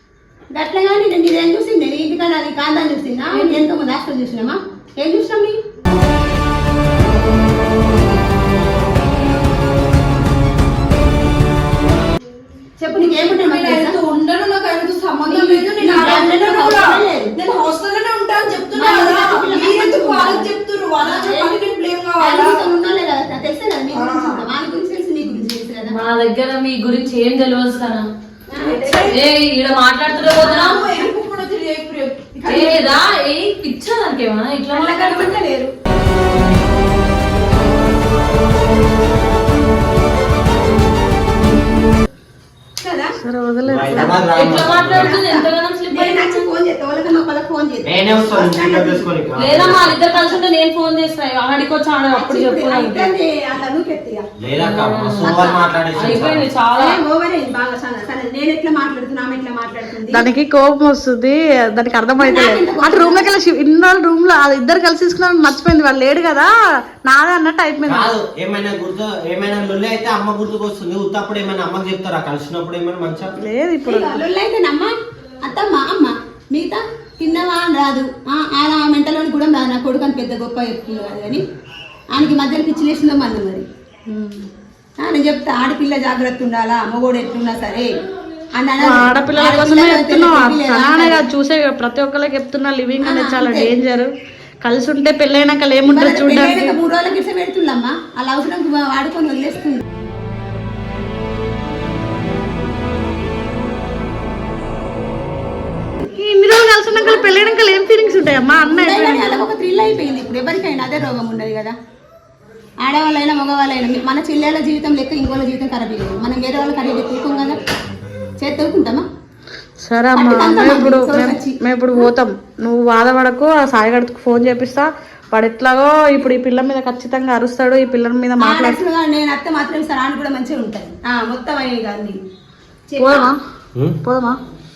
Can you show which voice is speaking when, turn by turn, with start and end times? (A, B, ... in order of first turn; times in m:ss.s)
0:00.5-0:05.6 A
0:03.3-0:03.6 B
0:12.8-0:14.0 A
0:12.9-0:22.7 C
0:15.2-0:17.3 A
0:18.7-0:21.6 A
0:22.2-0:26.0 A
0:23.9-0:24.5 C
0:25.9-0:28.0 B
0:28.5-0:29.1 A
0:28.5-0:29.2 C
0:29.1-0:30.8 B
0:30.3-0:32.9 C
0:30.4-0:31.1 A
0:32.5-0:35.3 B
0:34.7-0:35.7 A
0:42.8-0:43.1 A
0:43.2-0:44.2 D
0:43.6-0:45.0 E
0:43.8-0:50.4 A
0:44.3-0:46.4 B
0:47.8-0:49.9 E
0:49.4-0:53.1 B
0:52.1-0:54.2 A
0:54.4-0:56.4 E
0:54.6-0:55.3 B
0:55.2-0:55.6 A
0:56.0-0:57.0 B
0:56.8-1:00.2 A
1:00.1-1:06.5 D
1:02.2-1:03.2 A
1:07.0-1:08.1 D
1:07.9-1:13.3 E
1:13.4-1:14.2 D
1:13.8-1:14.9 A
1:15.4-1:21.4 A
1:22.1-1:23.6 A
1:24.1-1:24.4 D
1:25.0-1:27.9 A
1:28.6-1:31.2 A
1:28.8-1:34.1 D
1:33.0-1:33.7 A
1:34.6-1:36.8 D
1:35.8-1:39.8 A
1:46.1-1:49.5 D
1:46.9-1:47.3 A
1:48.7-1:51.7 A
1:52.8-1:57.6 A
1:58.4-1:59.0 A
1:59.8-2:08.8 D
2:00.1-2:02.1 A
2:08.4-2:12.2 A
2:12.9-2:13.3 A
2:13.0-2:13.3 B
2:14.0-2:14.4 D